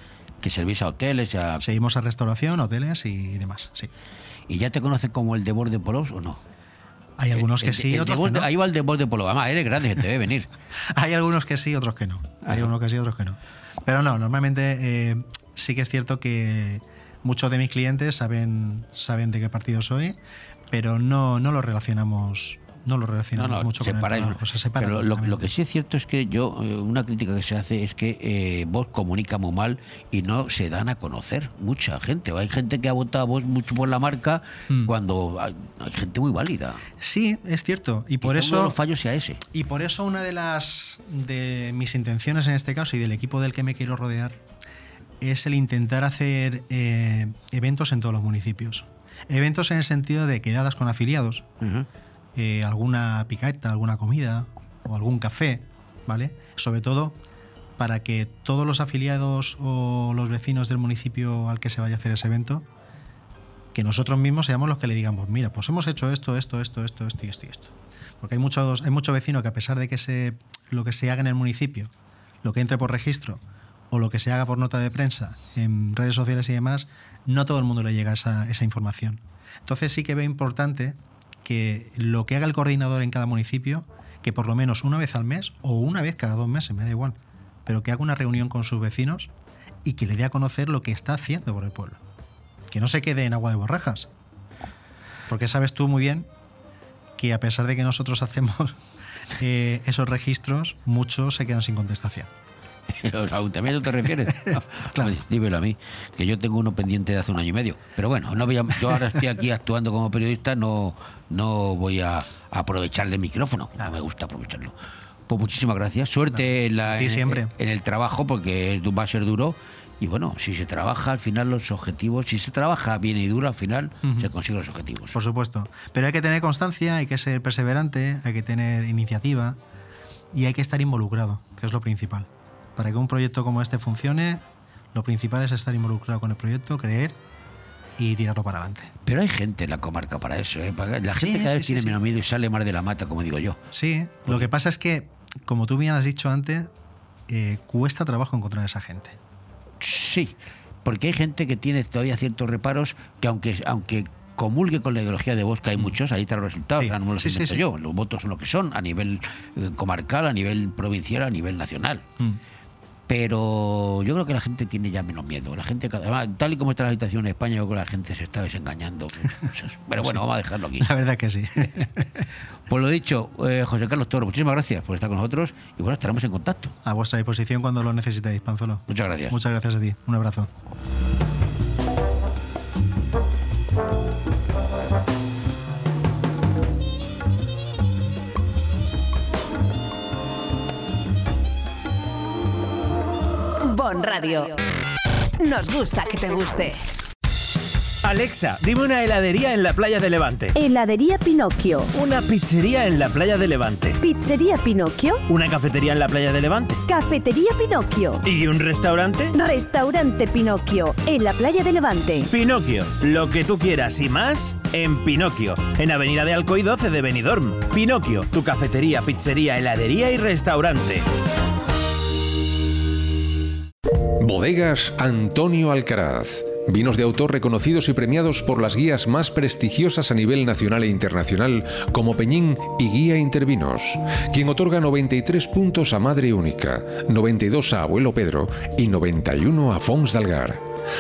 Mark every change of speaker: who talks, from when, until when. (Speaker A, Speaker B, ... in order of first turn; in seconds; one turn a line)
Speaker A: 0.4-1.7
Speaker B: 1.6-3.9
Speaker A: 4.5-6.4
Speaker B: 7.2-8.5
Speaker A: 7.3-10.5
Speaker B: 11.0-20.2
Speaker A: 12.4-12.7
Speaker B: 20.7-25.5
Speaker A: 23.4-36.8
Speaker B: 37.0-38.8
Speaker A: 38.2-39.4
Speaker B: 39.5-44.4
Speaker B: 45.2-51.5
Speaker A: 51.6-51.9
Speaker B: 52.4-57.2
Speaker B: 57.8-62.6
Speaker B: 63.7-71.9
Speaker B: 72.4-89.3
Speaker B: 89.8-92.0
Speaker B: 92.7-94.1
Speaker B: 95.3-96.3
Speaker B: 97.2-98.8
Speaker B: 99.4-102.3
Speaker A: 103.0-114.7
Speaker B: 104.5-105.1
Speaker A: 115.3-125.2
Speaker B: 116.9-117.5
Speaker B: 125.1-129.6
Speaker B: 130.3-134.4
Speaker B: 134.9-137.2
Speaker B: 138.0-138.9
Speaker A: 139.1-143.6
Speaker B: 141.2-142.0
Speaker B: 143.7-146.7
Speaker B: 147.3-149.2
Speaker A: 149.8-162.1
Speaker B: 156.8-157.6
Speaker A: 163.1-170.9
Speaker B: 170.8-172.1
Speaker A: 172.7-176.7
Speaker B: 176.8-180.5
Speaker A: 178.9-179.4
Speaker C: 193.6-194.6
Speaker C: 195.4-196.8
Speaker D: 198.0-200.5
Speaker E: 200.6-201.8
Speaker D: 201.9-204.0
Speaker E: 204.0-205.2
Speaker D: 205.3-206.8
Speaker E: 206.9-208.2
Speaker D: 208.2-209.3
Speaker E: 209.3-212.2
Speaker D: 212.3-221.0
Speaker F: 224.2-240.6